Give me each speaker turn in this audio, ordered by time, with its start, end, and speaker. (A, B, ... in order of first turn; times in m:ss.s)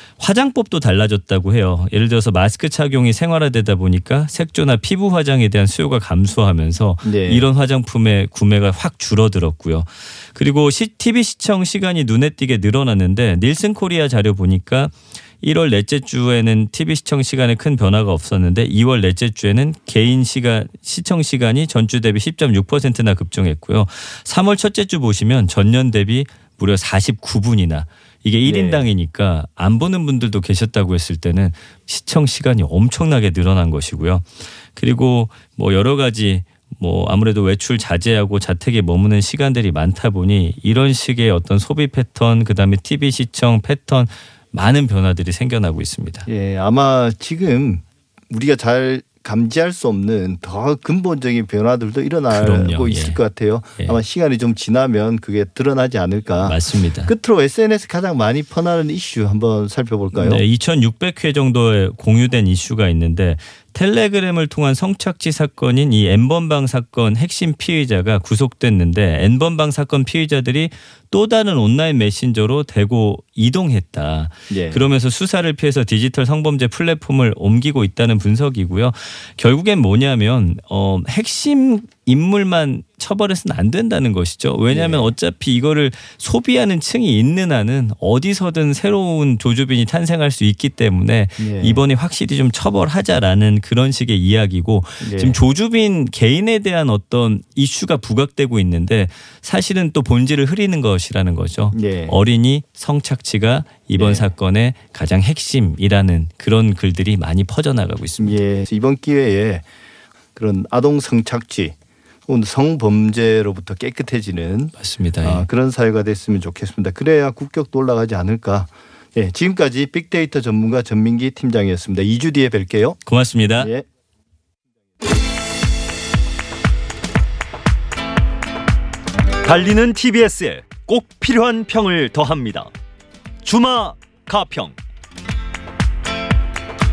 0:00.2-0:46.3 A
0:07.0-0:07.4 B
0:28.4-0:28.9 B
0:46.2-1:00.4 B
0:52.3-0:53.2 A
0:56.4-0:57.1 A
1:00.1-1:48.4 A
1:14.5-1:14.8 B
1:24.7-1:25.1 B
1:31.4-1:31.8 B
1:35.0-1:35.4 B
1:41.7-1:42.2 B
1:44.0-1:44.3 B
1:48.2-1:49.6 B
1:50.3-1:51.7 B
1:52.3-2:03.0 B
1:54.8-1:55.4 A
2:03.0-2:03.7 A
2:03.6-2:03.8 B
2:09.4-2:12.7 C
2:13.4-2:14.8 C